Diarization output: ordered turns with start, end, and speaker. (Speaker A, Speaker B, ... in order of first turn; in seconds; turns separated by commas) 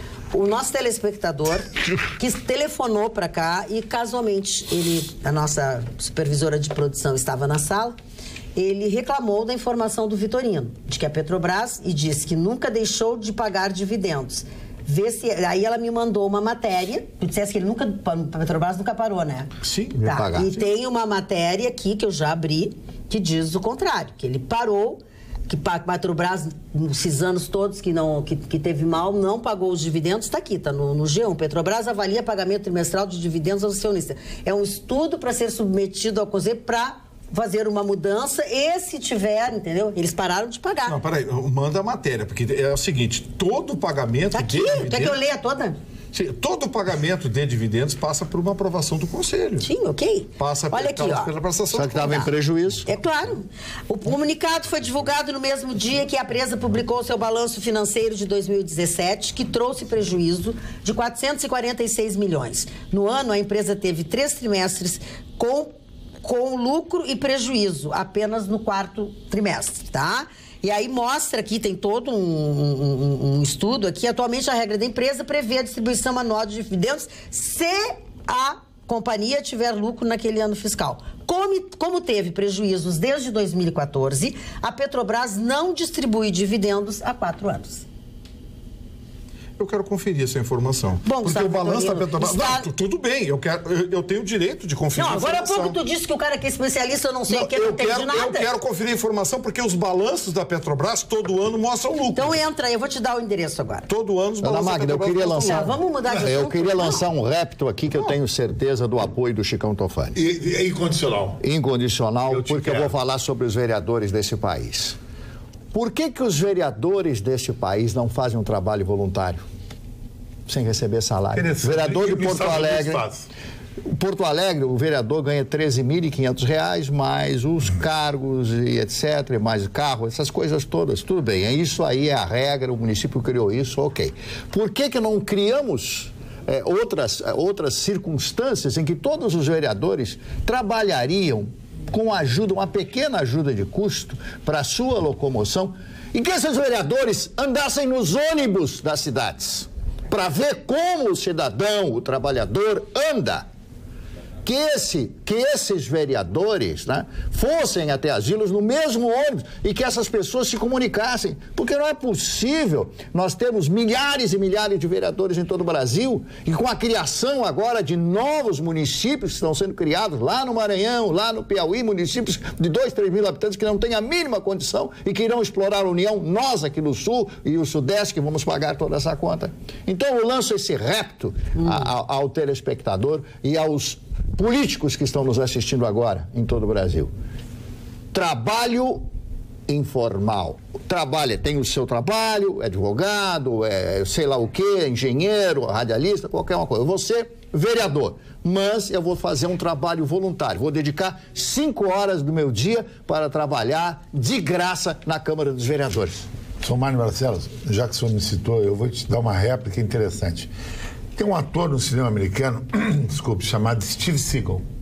Speaker A: 0.3-8.0, Speaker A: 8.6-19.5, Speaker B: 19.6-20.1, Speaker C: 20.0-20.6, Speaker A: 20.0-41.0, Speaker B: 40.9-45.2, Speaker A: 44.3-45.8, Speaker B: 46.1-49.7, Speaker A: 49.6-51.3, Speaker B: 50.4-52.3, Speaker C: 51.7-52.9, Speaker A: 52.9-65.7, Speaker A: 66.2-87.8, Speaker B: 89.6-95.8, Speaker A: 91.0-92.7, Speaker A: 95.0-98.5, Speaker B: 97.3-102.4, Speaker A: 102.1-103.9, Speaker B: 103.9-105.8, Speaker C: 104.4-110.1, Speaker A: 105.4-107.1, Speaker D: 110.1-111.4, Speaker C: 111.4-115.0, Speaker D: 112.3-112.9, Speaker C: 115.7-119.5, Speaker C: 120.5-123.0, Speaker D: 121.3-123.2, Speaker C: 123.8-153.4, Speaker C: 154.4-187.1, Speaker A: 181.6-181.9, Speaker C: 188.1-189.1, Speaker C: 189.7-206.3, Speaker D: 206.6-210.5, Speaker D: 211.2-214.6